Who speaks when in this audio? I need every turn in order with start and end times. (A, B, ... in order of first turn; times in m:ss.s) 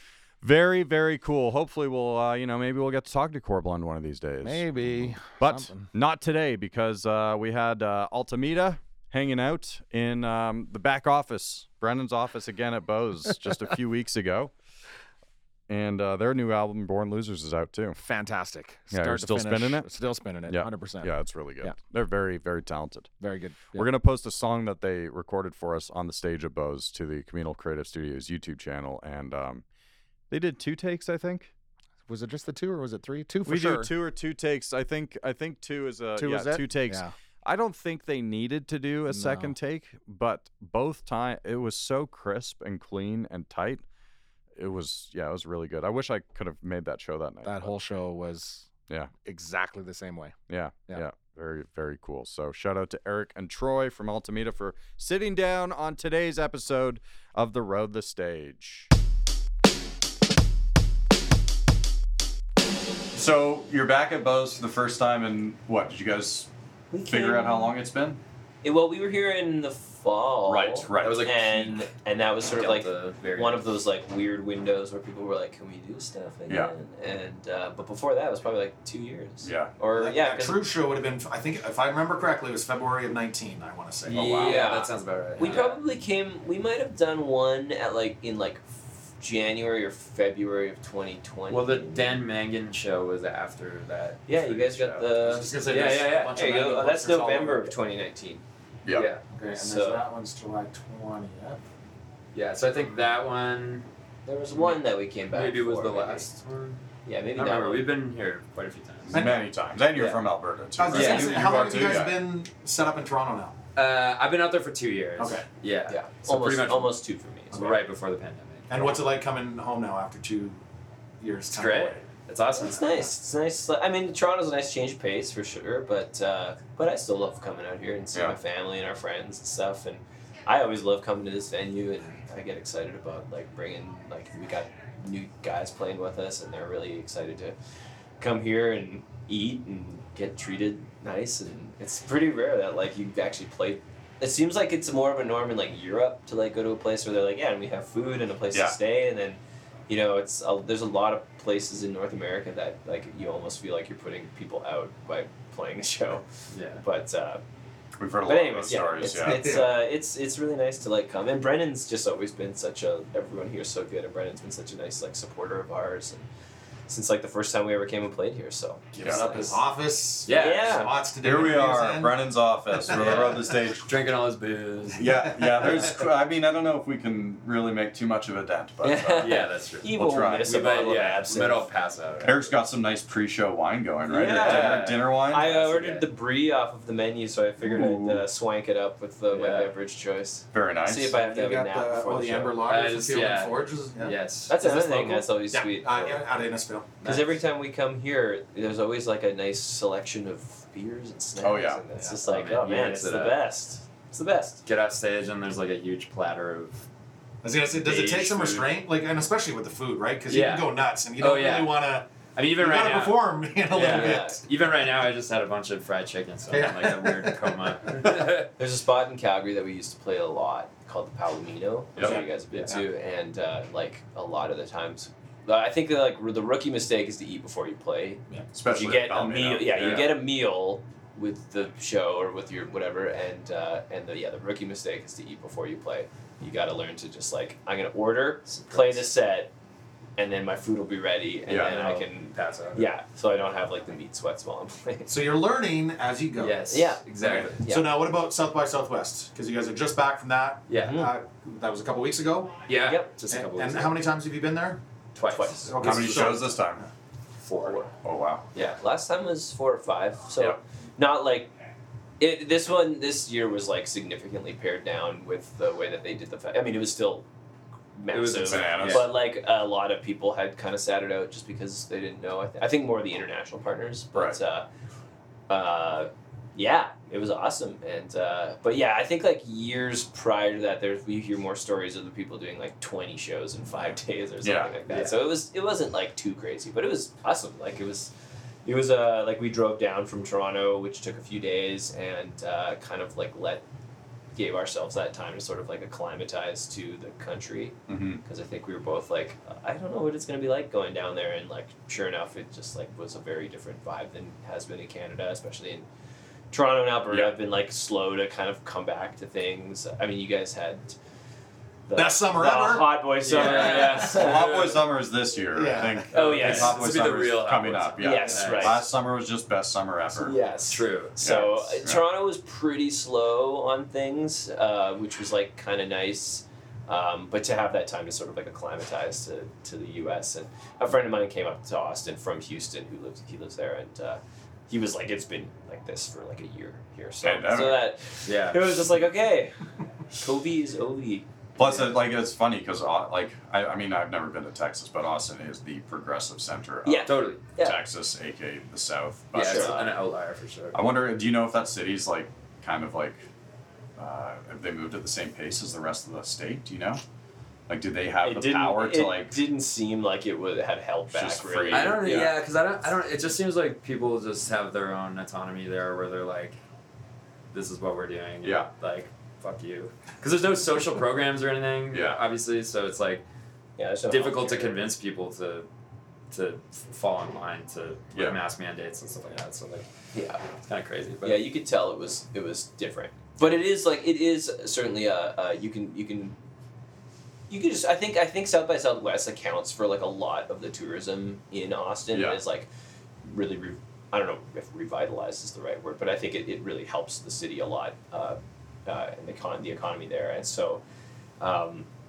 0:00.4-0:14.5 A
0:04.4-0:05.9 B
0:15.7-0:18.0 A
0:18.0-0:21.8 B
0:18.9-0:19.9 A
0:20.4-0:23.1 A
0:23.2-0:23.9 B
0:23.7-0:29.6 A
0:30.3-0:31.5 A
0:32.1-0:33.9 B
0:33.4-0:43.8 A
0:36.2-0:37.1 B
0:39.1-0:39.5 B
0:44.6-0:47.7 A
0:47.4-0:48.7 B
0:49.2-0:50.4 B
0:50.5-0:58.9 A
1:03.1-1:06.5 A
1:06.9-1:07.8 C
1:07.0-1:08.2 A
1:08.6-1:20.6 C
1:10.4-1:11.3 A
1:11.0-1:11.9 D
1:12.4-1:13.7 D
1:16.5-1:16.7 A
1:19.4-1:19.7 A
1:19.9-1:24.6 E
1:24.0-1:25.8 D
1:24.2-1:24.5 A
1:24.3-1:32.2 C
1:31.5-1:36.6 D
1:34.3-1:38.4 C
1:35.2-1:37.7 E
1:38.9-1:39.2 D
1:39.3-1:41.6 E
1:39.5-1:40.0 C
1:42.3-1:43.9 D
1:44.2-1:46.3 C
1:44.5-1:49.2 D
1:47.0-1:47.9 C
1:49.1-1:52.2 A
1:49.1-1:49.4 E
1:49.9-1:50.2 D
1:50.8-1:53.6 E
1:50.9-1:51.6 D
1:51.0-1:51.2 C
1:53.8-1:59.0 D
1:55.2-1:55.4 E
1:55.9-1:57.8 C
1:58.7-2:00.6 E
2:01.2-2:02.0 E
2:01.5-2:03.1 D
2:02.5-2:17.6 C
2:18.2-2:36.2 C
2:28.5-2:28.8 A
2:36.5-2:36.8 D
2:36.8-2:37.4 C
2:38.0-2:39.6 A
2:38.2-2:46.3 C
2:39.3-2:39.7 E
2:46.9-2:49.6 C
2:49.0-2:49.2 A
2:49.0-2:49.6 D
2:49.1-2:52.2 E
2:50.2-2:50.8 D
2:50.3-2:51.0 C
2:51.2-2:53.9 A
2:52.9-2:55.9 D
2:52.9-2:53.2 E
2:54.9-2:59.4 A
2:58.8-3:01.7 C
2:59.2-3:02.5 D
2:59.9-3:00.7 A
3:02.2-3:05.5 A
3:04.1-3:12.6 C
3:04.1-3:06.1 D
3:07.6-3:08.2 A
3:09.3-3:09.7 D
3:10.5-3:11.1 A
3:11.1-3:17.3 E
3:12.6-3:14.8 D
3:14.5-3:16.2 C
3:17.0-3:24.6 C
3:21.4-3:21.8 A
3:22.2-3:23.4 D
3:24.6-3:26.9 D
3:27.4-3:34.4 E
3:27.7-3:28.7 D
3:30.3-3:38.5 D
3:33.7-3:34.4 C
3:36.5-3:37.5 E
3:38.6-3:59.5 C
3:42.0-3:42.8 D
3:48.5-3:50.1 A
3:49.8-3:50.1 D
3:58.5-3:59.0 D
4:00.2-4:05.1 C
4:01.5-4:01.7 A
4:01.5-4:02.9 D
4:05.1-4:06.7 E
4:06.4-4:07.6 D
4:06.7-4:07.9 C
4:07.2-4:12.6 E
4:10.7-4:11.0 D
4:10.8-4:11.1 C
4:12.7-4:14.0 D
4:12.8-4:13.1 C
4:13.3-4:14.8 E
4:15.1-4:16.4 D
4:15.2-4:15.9 C
4:15.6-4:16.9 E
4:15.8-4:16.8 A
4:17.4-4:17.9 D
4:17.9-4:18.4 A
4:18.6-4:21.5 C
4:22.2-4:27.2 C
4:28.0-4:34.7 C
4:28.1-4:29.1 D
4:28.4-4:29.1 A
4:35.5-4:48.1 C
4:44.4-4:44.7 A
4:44.9-4:45.2 D
4:48.6-4:53.6 C
4:54.3-5:05.9 C
4:57.9-4:58.2 A
5:06.5-5:11.0 C
5:11.9-5:14.7 C
5:11.9-5:13.9 E
5:13.2-5:14.8 D
5:13.9-5:20.4 A
5:15.5-5:16.1 E
5:16.1-5:18.9 D
5:16.1-5:16.8 C
5:18.0-5:18.9 C
5:20.2-5:39.6 C
5:20.7-5:21.6 D
5:21.2-5:22.0 A
5:37.2-5:37.9 A
5:38.2-5:38.8 D
5:40.1-5:41.2 C
5:41.6-5:49.8 A
5:41.6-5:41.9 D
5:46.8-5:47.8 C
5:47.0-5:47.4 D
5:49.3-5:50.8 D
5:49.3-5:49.9 C
5:50.7-5:53.2 A
5:54.0-5:57.0 A
5:57.7-5:59.4 A
5:58.2-6:02.2 C
6:01.1-6:02.4 A
6:01.7-6:06.6 D
6:07.5-6:13.2 D
6:08.4-6:08.7 A
6:11.9-6:12.2 A
6:13.8-6:14.8 C
6:14.1-6:15.7 D
6:16.3-6:19.9 D
6:18.1-6:18.4 A
6:20.1-6:20.4 C
6:20.5-6:21.5 D
6:21.2-6:26.4 C
6:27.5-6:32.7 C
6:32.1-6:32.4 A
6:33.2-6:40.8 C
6:41.4-6:41.9 C